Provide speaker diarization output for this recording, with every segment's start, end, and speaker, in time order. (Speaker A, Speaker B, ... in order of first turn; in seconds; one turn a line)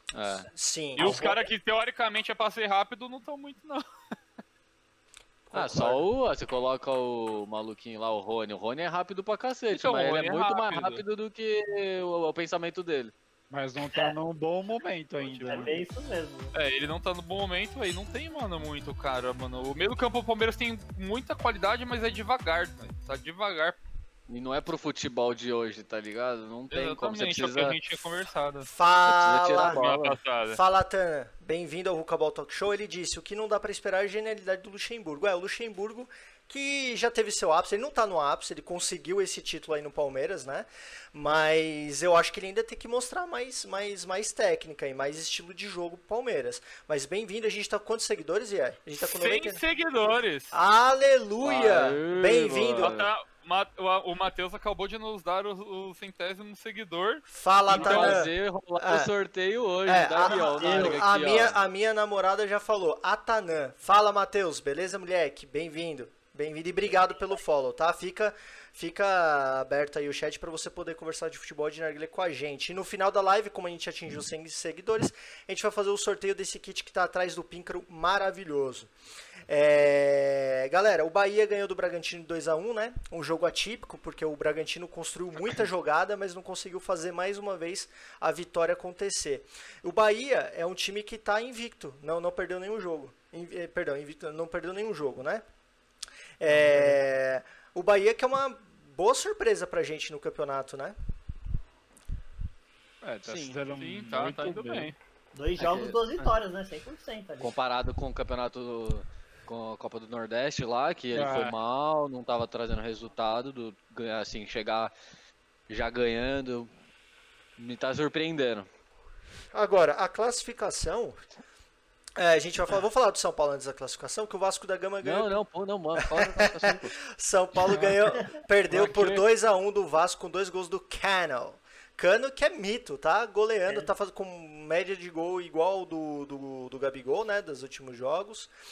Speaker A: 0.1-0.5
Speaker B: 0.5-1.2
Speaker C: 0.9-3.9
Speaker D: 1.0-1.5
Speaker B: 5.5-6.0
Speaker A: 5.5-13.1
Speaker C: 9.7-11.0
Speaker E: 13.5-15.8
Speaker C: 15.2-15.7
Speaker D: 15.5-16.5
Speaker C: 16.5-23.8
Speaker A: 24.3-27.8
Speaker C: 26.7-28.7
Speaker B: 28.7-29.8
Speaker A: 29.1-30.2
Speaker C: 29.4-30.6
Speaker B: 30.5-49.6
Speaker C: 49.0-50.6
Speaker B: 50.5-53.0
Speaker A: 51.4-53.1
Speaker C: 52.8-58.2
Speaker B: 57.3-59.1
Speaker A: 57.7-61.6
Speaker B: 59.9-78.9
Speaker D: 60.2-61.0
Speaker B: 79.5-95.4
Speaker B: 96.4-101.0
Speaker E: 103.0-104.9
Speaker A: 103.3-103.6
Speaker C: 103.7-105.0
Speaker D: 105.3-107.5
Speaker A: 105.6-106.3
Speaker A: 107.4-114.9
Speaker E: 111.1-111.6
Speaker A: 115.7-116.7
Speaker A: 117.6-118.7
Speaker B: 119.5-121.2
Speaker B: 122.2-125.3
Speaker A: 125.0-127.0
Speaker B: 126.0-138.5
Speaker E: 127.7-128.0
Speaker E: 128.7-129.2